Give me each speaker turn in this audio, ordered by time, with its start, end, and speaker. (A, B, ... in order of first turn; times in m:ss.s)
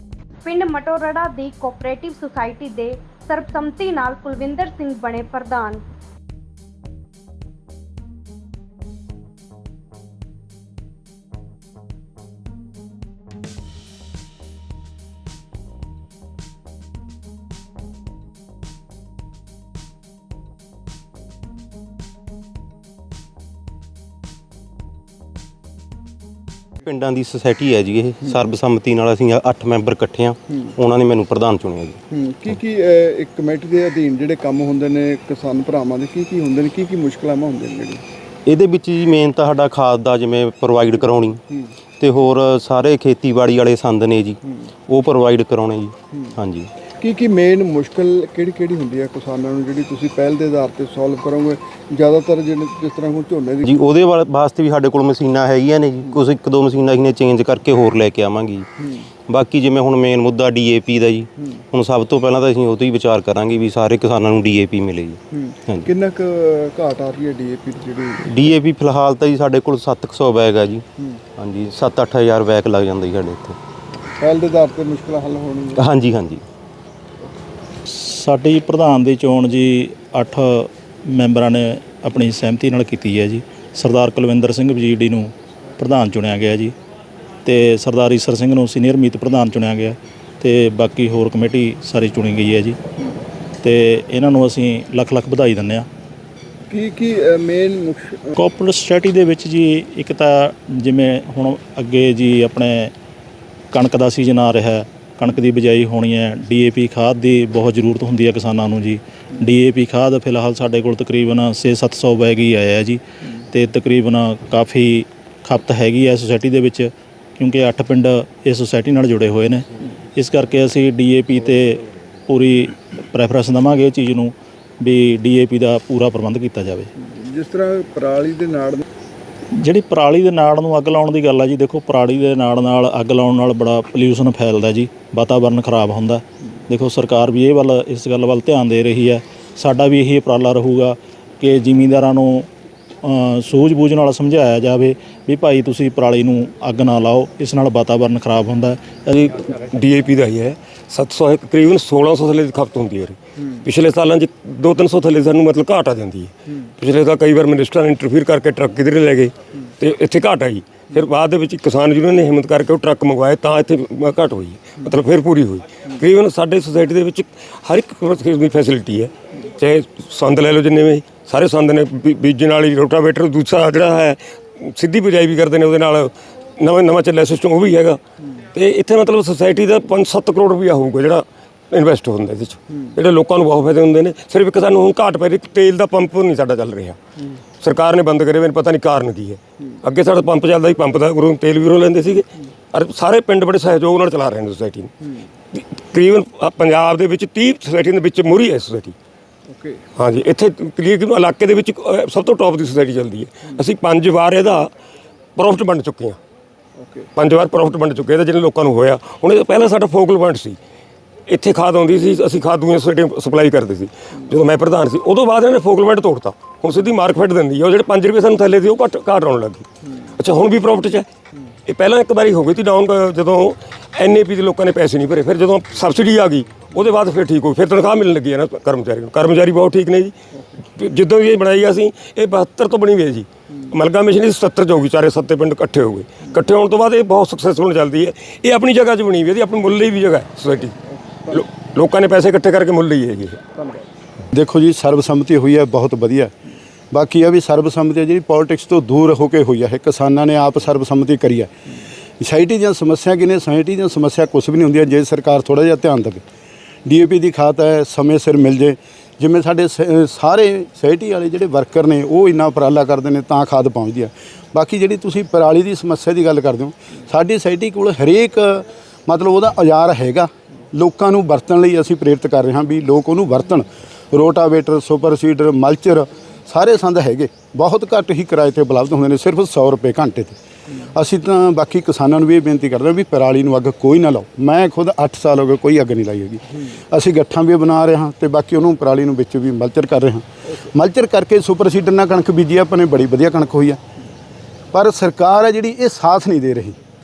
0:00.4-0:05.8 A
0:26.9-0:32.0 B
0:32.1-0:38.0 C
0:38.5-0:41.4 B
0:42.0-0:46.7 B
0:47.0-0:53.7 C
0:53.7-0:58.7 B
0:59.3-1:05.8 B
1:05.3-1:08.5 C
1:08.2-1:10.8 B
1:11.4-1:13.6 B
1:14.2-1:15.8 C
1:15.8-1:16.4 B
1:17.9-1:26.7 D
1:27.4-1:32.8 D
1:33.6-1:35.8 D
1:36.7-1:38.3 C
1:38.4-1:42.9 D
1:43.7-2:06.9 D
2:07.0-2:08.8 C
2:09.6-2:22.5 D
2:23.0-2:29.3 D
2:29.4-2:58.0 E
2:58.5-3:07.0 E
3:07.6-3:14.9 E
3:15.5-3:19.0 E
3:19.5-3:19.8 C
3:20.0-3:24.7 E
3:25.4-3:26.2 E
3:26.8-3:27.1 C
3:27.2-3:30.6 E
3:31.3-3:41.1 E
3:41.7-3:50.2 E
3:50.8-4:00.8 E
4:01.3-4:03.4 E
4:04.3-4:06.3 F
4:06.9-4:11.5 F
4:12.2-4:16.2 F
4:16.8-4:40.4 F
4:40.9-4:53.8 F
4:54.7-4:56.8 F